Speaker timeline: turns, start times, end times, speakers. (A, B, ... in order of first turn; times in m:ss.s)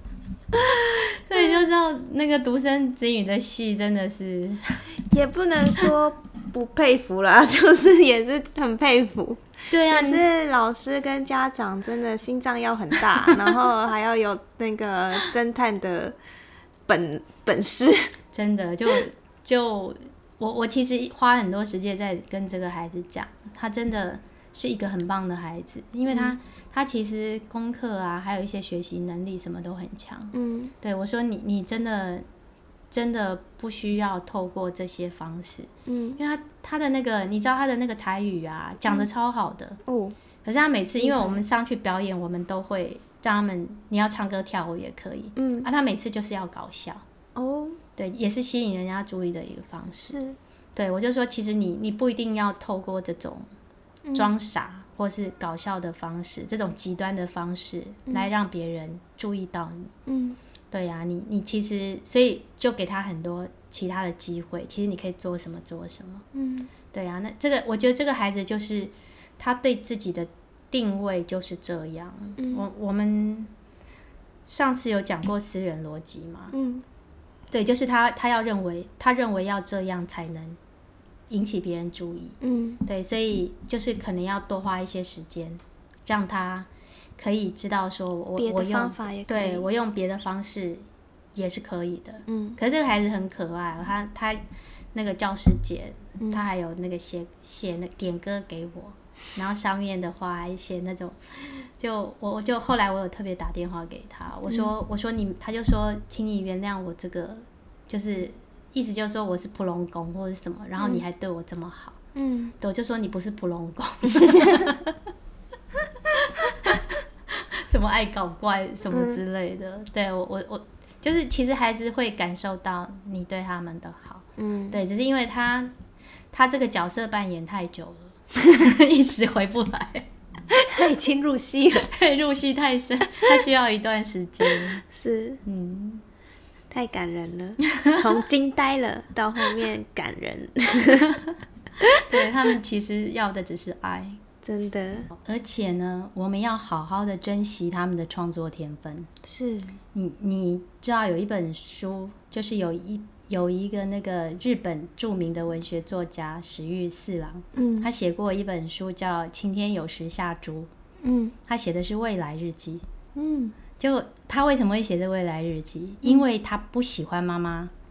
0:00.5-0:01.6 A
0:00.9-0:04.8 B
0:05.1-0:16.2 A
0:09.7-0:10.2 B
0:16.9-0:18.1 A
0:18.3-0:32.2 B
0:26.1-0:26.4 A
0:30.3-0:30.8 A
0:32.9-0:39.8 B
0:35.9-0:36.2 A
0:39.8-0:40.2 A
0:40.4-0:47.0 B
0:41.0-0:41.4 A
0:45.4-0:45.7 A
0:47.4-0:47.8 A
0:48.0-0:50.2 B
0:50.1-0:50.4 A
0:50.8-0:53.4 B
0:54.0-0:54.3 A
0:54.1-0:59.9 B
1:00.1-1:00.4 A
1:00.7-1:06.3 B
1:06.3-1:06.7 A
1:06.9-1:13.5 B
1:12.4-1:12.6 A
1:14.5-1:16.5 B
1:16.5-1:16.8 A
1:17.5-1:20.6 B
1:21.3-1:26.7 B
1:22.4-1:22.8 A
1:27.2-1:30.8 B
1:28.4-1:29.7 A
1:31.4-1:34.4 B
1:32.3-1:32.6 A
1:34.9-1:52.0 B
1:44.5-1:44.7 A
1:52.2-1:52.6 A
1:52.6-1:54.9 B
1:56.1-1:56.8 B
1:57.7-2:05.7 B
1:58.9-1:59.2 A
2:04.4-2:04.8 A
2:06.3-2:10.1 B
2:10.5-2:11.9 A
2:11.8-2:14.8 B
2:14.5-2:15.4 A
2:15.4-2:16.0 B
2:16.7-2:21.2 A
2:17.7-2:18.0 B
2:21.9-2:24.2 B
2:24.4-2:25.1 A
2:25.1-2:29.1 B
2:29.2-2:29.8 A
2:29.9-2:40.7 B
2:37.6-2:37.9 A
2:41.0-2:41.4 A
2:41.5-2:42.8 B
2:43.2-2:43.6 A
2:43.8-2:47.7 B